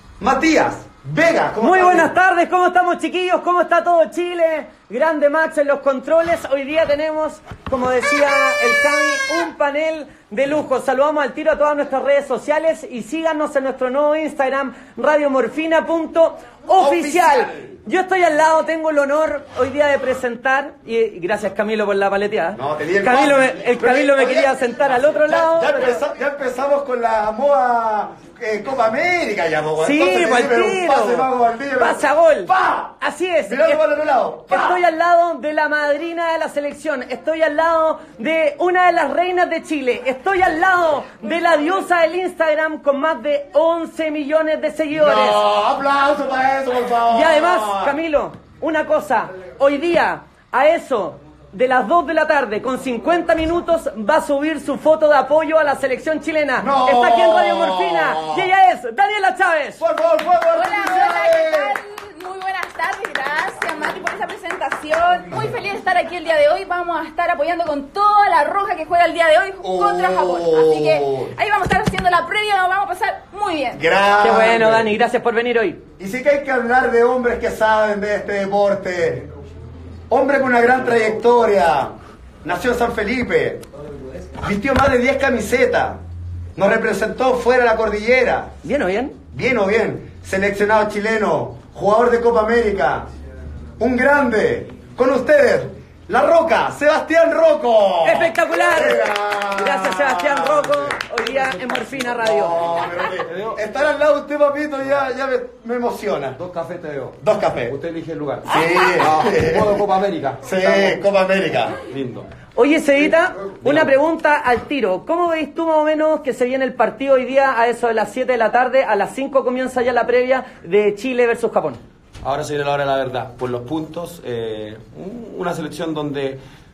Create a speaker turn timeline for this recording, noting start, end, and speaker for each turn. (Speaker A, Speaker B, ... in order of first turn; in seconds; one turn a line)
Speaker A: 0.2-2.1
Speaker B: 1.6-26.0
Speaker C: 8.5-8.8
Speaker A: 16.8-17.8
Speaker A: 22.5-24.6
Speaker A: 25.2-34.8
Speaker B: 29.8-33.8
Speaker B: 34.5-45.4
Speaker A: 44.9-48.0
Speaker B: 47.1-59.8
Speaker A: 56.6-58.5
Speaker A: 59.8-61.8
Speaker C: 60.5-73.8
Speaker A: 69.6-71.3
Speaker A: 73.7-74.9
Speaker B: 74.2-75.8
Speaker A: 76.0-79.2
Speaker A: 80.1-83.6
Speaker A: 84.4-86.0
Speaker A: 86.5-88.5
Speaker B: 88.6-89.1
Speaker A: 89.3-93.1
Speaker A: 93.8-101.0
Speaker B: 98.0-102.6
Speaker D: 101.2-103.6
Speaker A: 102.2-106.4
Speaker D: 106.3-111.0
Speaker A: 107.2-107.8
Speaker A: 108.5-109.7
Speaker C: 108.5-109.1
Speaker A: 110.4-111.8
Speaker D: 111.8-112.3
Speaker B: 112.5-121.8
Speaker D: 113.5-113.9
Speaker D: 122.2-126.4